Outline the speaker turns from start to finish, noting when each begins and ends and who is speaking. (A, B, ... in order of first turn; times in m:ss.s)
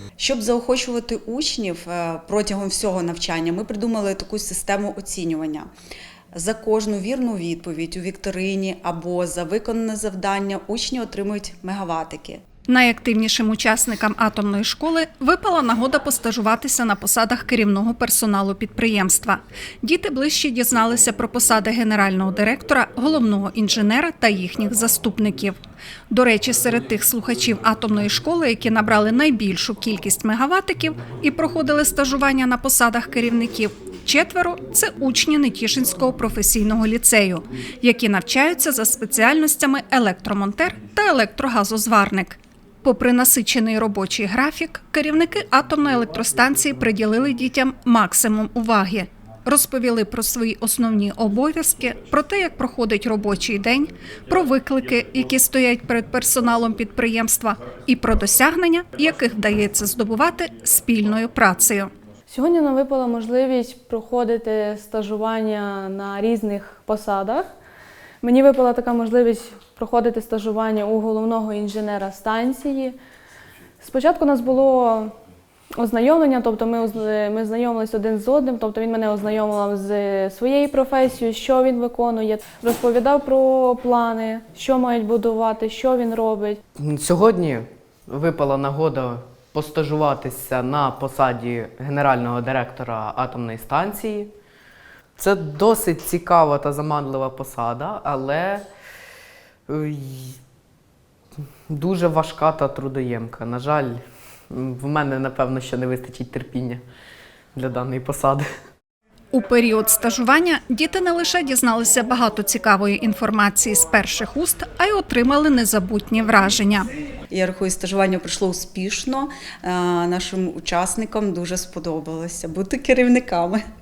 0:00.2-0:05.7 A
0:06.3-0:12.4 A
0:12.7-1:01.9 B
1:02.3-1:07.4 C
1:08.2-1:13.0 C
1:13.8-1:15.1 C
1:15.8-1:26.6 C
1:26.8-1:34.3 D
1:35.2-1:38.7 D
1:39.7-1:40.4 D
1:41.7-1:46.8 D
1:47.5-1:48.5 D
1:49.3-1:56.9 B
1:57.3-2:03.6 A